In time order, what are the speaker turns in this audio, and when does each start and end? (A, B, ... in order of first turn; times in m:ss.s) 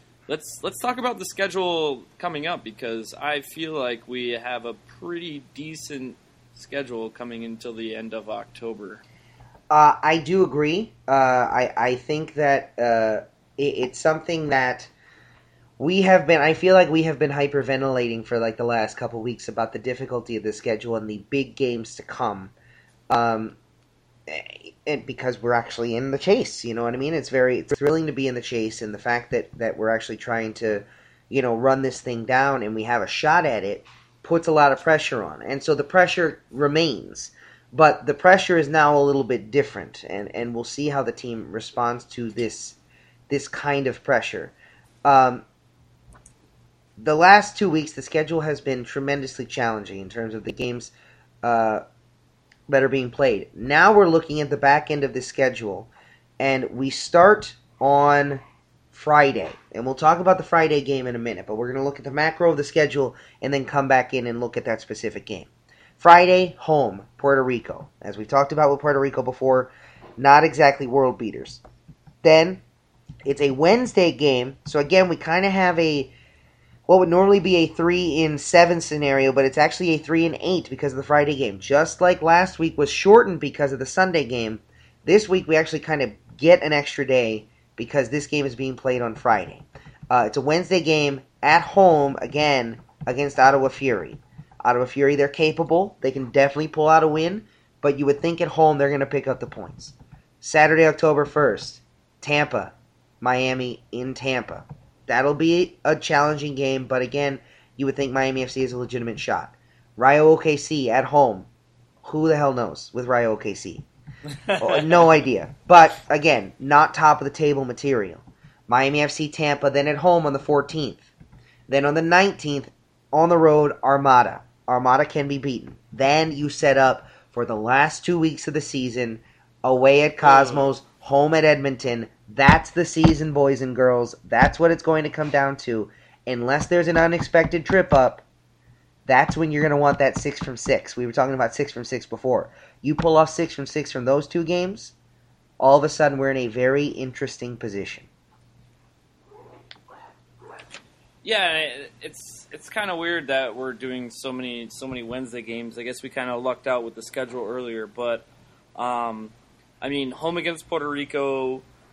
0:00.3-0:09.0 A
0:09.7-0:14.9 B
0:15.8-0:22.5 B
0:23.1-0:23.6 B
0:24.3-0:42.8 B
0:43.3-0:45.4 B
0:47.0-0:51.8 B
0:52.7-1:11.6 B
1:12.2-1:12.6 B
1:13.2-1:16.1 B
1:16.9-1:51.5 B
1:52.0-1:53.8 B
1:54.5-1:55.0 A
1:54.6-2:01.1 B
2:01.7-2:18.2 B
2:10.2-2:10.7 A
2:19.0-2:24.9 B
2:25.6-2:28.1 B
2:31.2-2:41.6 A